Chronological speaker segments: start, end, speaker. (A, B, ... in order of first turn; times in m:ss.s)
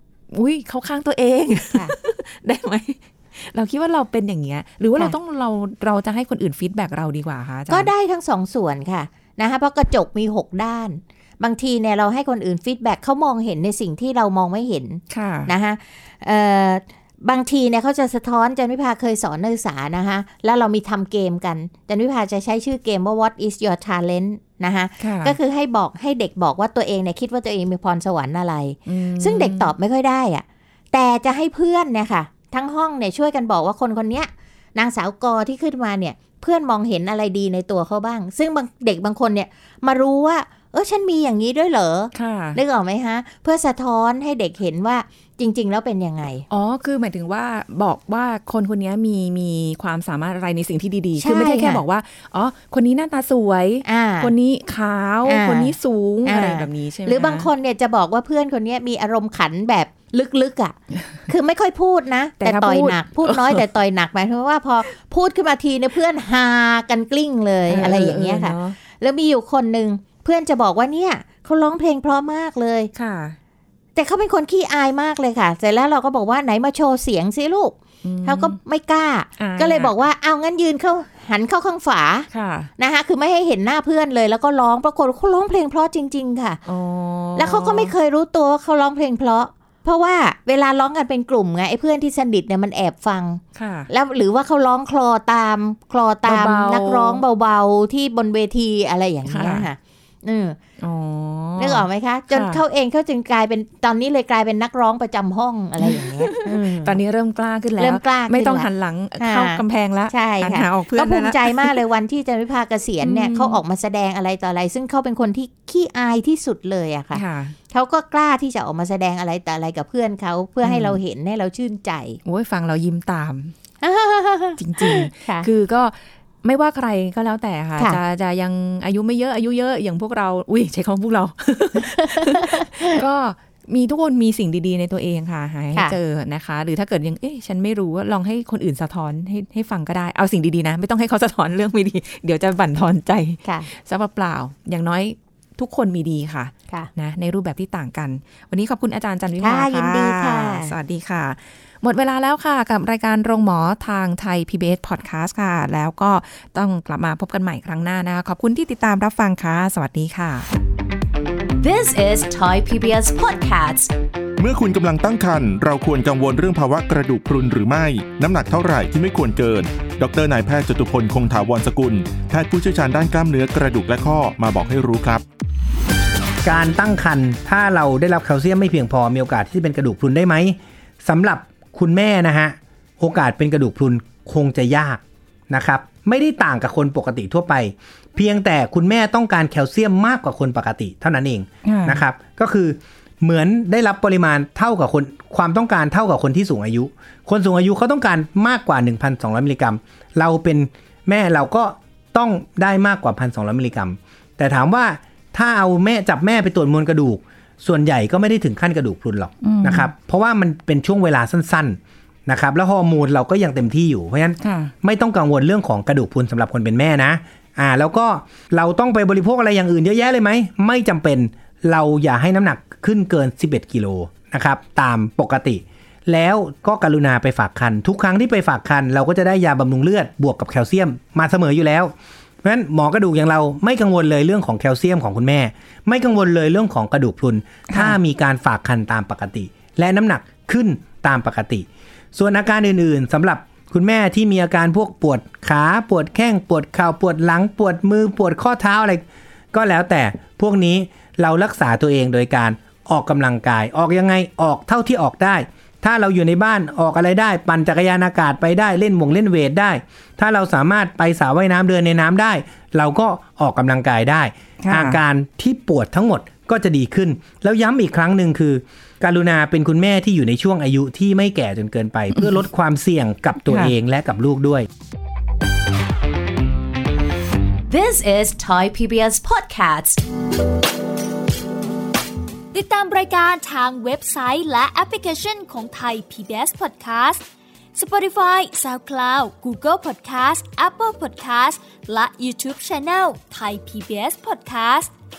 0:00.3-0:07.9 A
0:07.7-0:46.4 B
0:15.1-0:15.5 A
0:25.0-0:25.4 A
0:28.8-0:29.7 A
0:42.1-0:42.6 A
0:46.5-0:57.5 A
0:51.2-0:51.8 B
0:53.8-0:54.3 B
0:55.2-1:00.8 B
1:01.3-1:12.9 B
1:02.4-1:03.6 A
1:07.7-1:08.8 A
1:12.9-1:13.4 A
1:13.9-1:26.6 B
1:18.0-1:18.6 A
1:19.4-1:20.0 A
1:22.3-1:22.7 A
1:26.6-1:27.9 A
1:27.4-1:40.6 B
1:33.5-1:33.9 A
1:36.2-1:37.2 A
1:39.2-1:39.7 A
1:40.8-1:42.6 A
1:41.6-1:47.0 B
1:45.8-1:51.8 A
1:47.8-2:02.2 B
1:53.0-1:53.6 A
1:57.1-1:57.6 A
2:00.6-2:01.0 A
2:02.2-2:03.5 A
2:03.8-2:05.5 B
2:04.6-2:40.5 A
2:12.0-2:13.0 B
2:29.4-2:30.7 B
2:41.6-2:43.9 C
2:44.4-2:55.2 D
2:56.4-4:34.7 E
3:11.6-3:12.0 A
3:29.4-3:29.9 A
3:34.4-3:34.7 A
3:57.7-3:58.0 A
4:24.6-4:25.0 A
4:32.1-4:32.4 A
4:33.4-4:33.7 A
4:37.7-4:40.0 C
4:42.5-4:47.2 F
4:47.7-4:54.9 F